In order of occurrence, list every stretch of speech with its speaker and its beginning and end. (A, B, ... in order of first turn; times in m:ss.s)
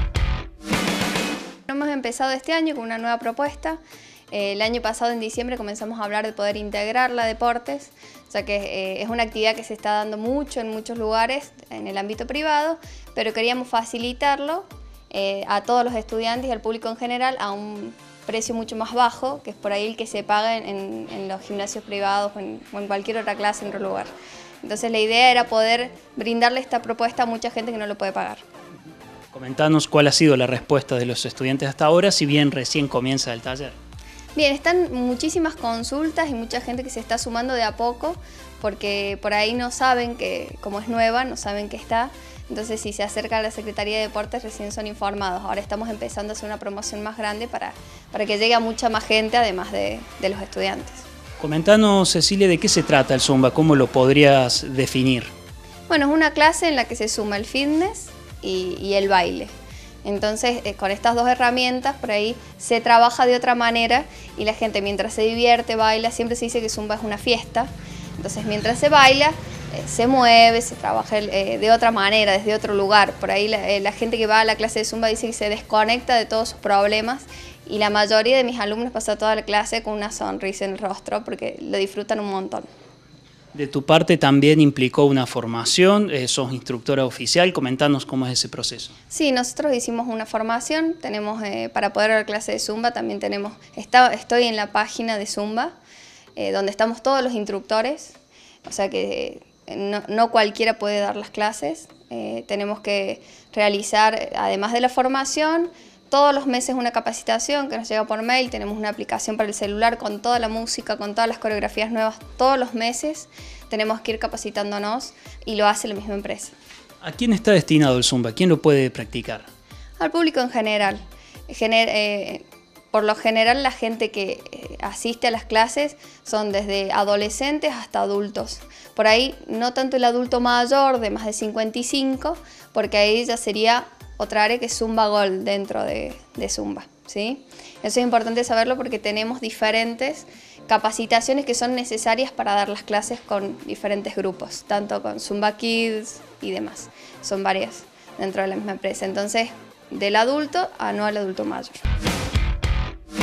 0:01.7-0:03.8 A
0:04.3-0:24.1 A
0:24.6-0:28.4 A
0:29.3-0:33.8 B
0:34.3-0:51.0 A
0:51.4-0:55.3 B
0:55.9-0:59.5 A
1:00.0-1:22.7 A
1:23.5-1:28.9 B
1:29.1-1:35.8 A
1:36.4-1:38.1 A
1:38.6-1:56.5 A
1:57.0-1:59.5 B
2:00.0-2:31.8 A